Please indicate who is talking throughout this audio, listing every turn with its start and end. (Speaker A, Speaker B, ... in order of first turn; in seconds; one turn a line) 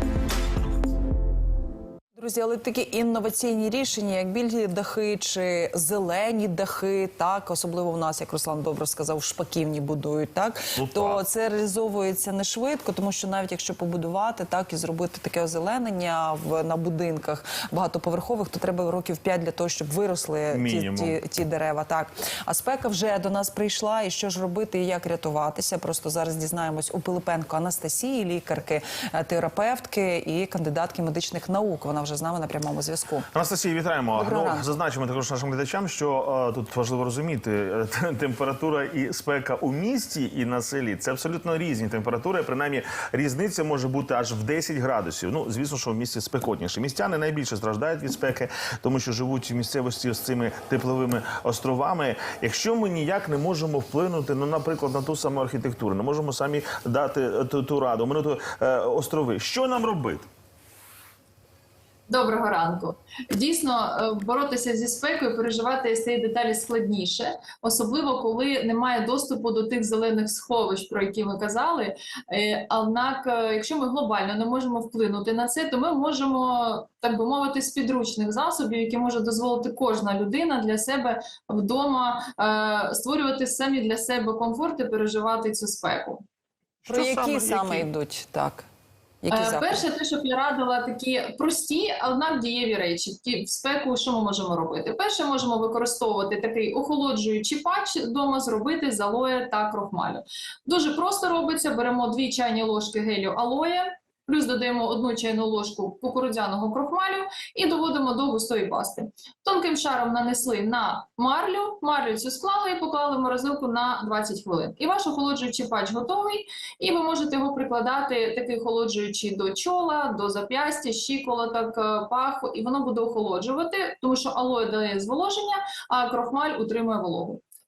Speaker A: 2.1-33.3
Speaker B: 10.8-11.2
Speaker B: 20.5-21.2
Speaker B: 33.3-60.3
Speaker A: 34.1-34.8
Speaker C: 62.1-86.2
Speaker B: 86.8-87.9
Speaker A: 86.9-88.7
Speaker A: 89.2-89.8
Speaker C: 89.3-127.4